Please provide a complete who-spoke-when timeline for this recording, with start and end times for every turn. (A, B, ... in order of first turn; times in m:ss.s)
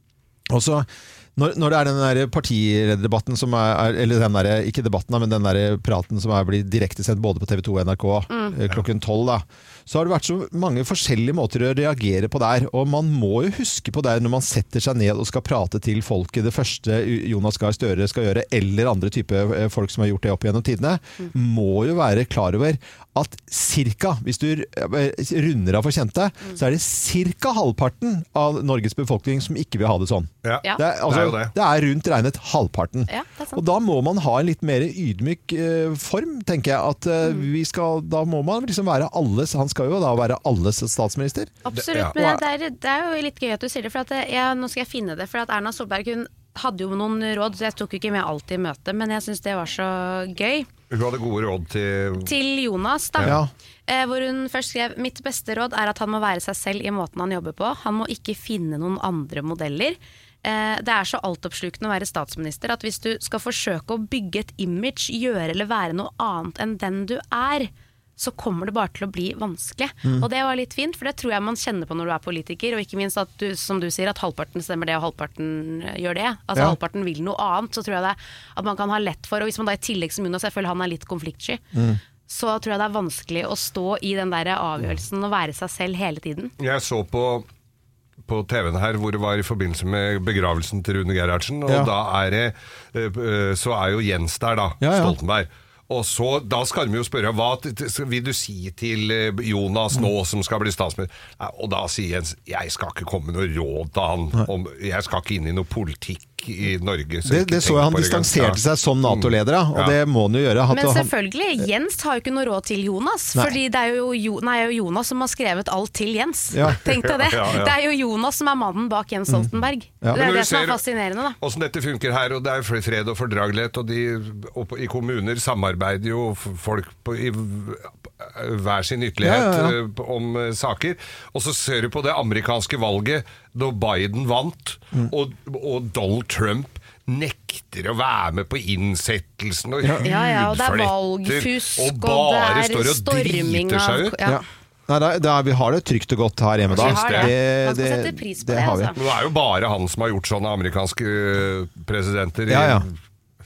0:00.5-0:41.5 A
0:08.3-0:08.6 B
0:30.4-0:31.5 C
0:33.1-0:33.6 B
0:41.6-0:50.7 B
0:41.7-0:42.4 C
0:50.9-0:52.3 C
0:52.2-1:21.6 B
0:53.2-0:53.5 A
1:21.7-1:22.0 A
1:22.3-1:26.5 B
1:26.6-1:27.5 C
1:28.2-1:50.0 C
1:31.7-1:31.9 A
1:34.8-1:35.2 A
1:47.2-1:51.1 A
1:50.7-2:01.4 B
1:56.5-1:56.8 A
1:56.9-1:57.7 C
1:59.3-2:00.2 A
2:00.2-2:00.8 C
2:01.4-2:24.1 C
2:09.2-2:09.8 A
2:19.8-2:20.1 A
2:20.0-2:24.4 B
2:24.2-2:28.9 A
2:26.7-2:27.3 C
2:26.8-2:29.0 B
2:29.0-2:32.9 C
2:32.5-2:32.9 A